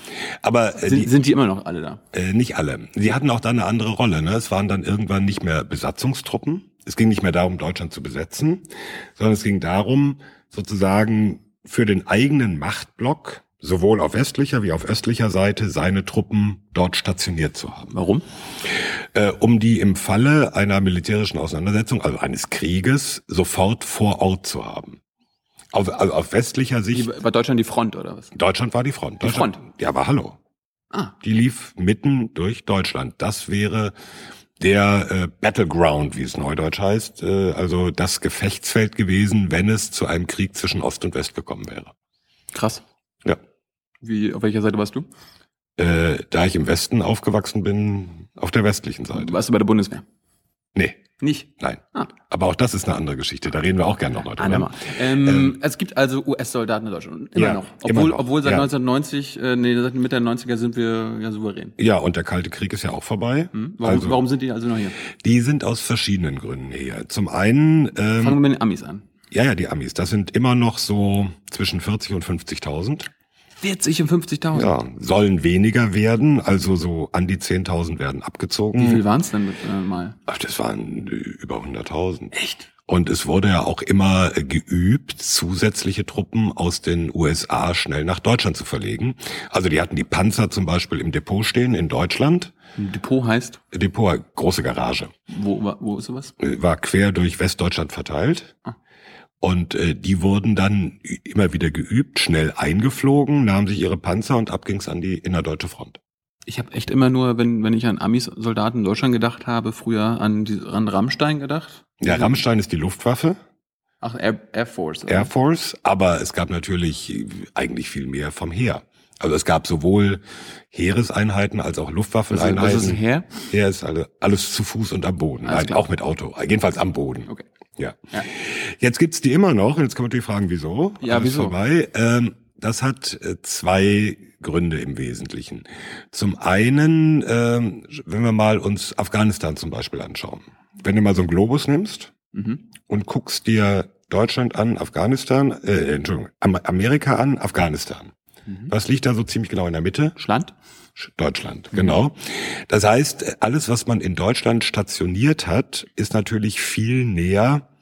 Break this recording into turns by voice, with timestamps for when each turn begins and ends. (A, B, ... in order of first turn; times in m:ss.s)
0:00.4-0:01.1 A
0:00.8-0:02.0 B
0:02.1-0:18.0 A
0:17.9-0:18.2 B
0:18.6-0:25.0 A
0:25.7-0:27.1 A
0:26.9-0:28.3 B
0:28.3-0:30.4 A
0:29.2-0:29.6 B
0:31.2-0:33.9 A
0:34.6-0:41.9 A
0:42.5-0:42.8 B
0:44.0-0:45.1 B
0:45.8-0:49.4 A
0:49.1-0:50.0 B
0:50.8-0:51.0 A
0:51.2-0:52.1 B
0:51.6-0:55.6 A
0:54.4-1:01.8 B
0:57.4-0:58.7 A
1:01.8-1:04.2 A
1:03.5-1:05.0 B
1:05.2-1:08.4 A
1:08.2-1:09.0 B
1:09.3-1:13.1 A
1:13.6-1:14.7 B
1:14.5-1:19.0 A
1:18.8-1:20.2 B
1:20.3-1:32.5 A
1:22.3-1:22.7 B
1:32.8-1:33.6 B
1:33.7-1:35.1 A
1:35.3-1:36.4 B
1:36.4-1:38.5 A
1:39.4-1:46.0 A
1:46.5-1:52.4 B
1:52.0-1:53.4 A
1:54.0-1:55.3 B
1:55.1-2:22.1 A
2:02.3-2:03.3 B
2:05.4-2:05.9 B
2:11.0-2:11.6 B
2:22.3-2:22.6 B
2:22.9-2:28.1 A
2:28.7-2:30.2 A
2:30.2-2:30.5 B
2:31.0-2:37.7 A
2:31.7-2:32.0 B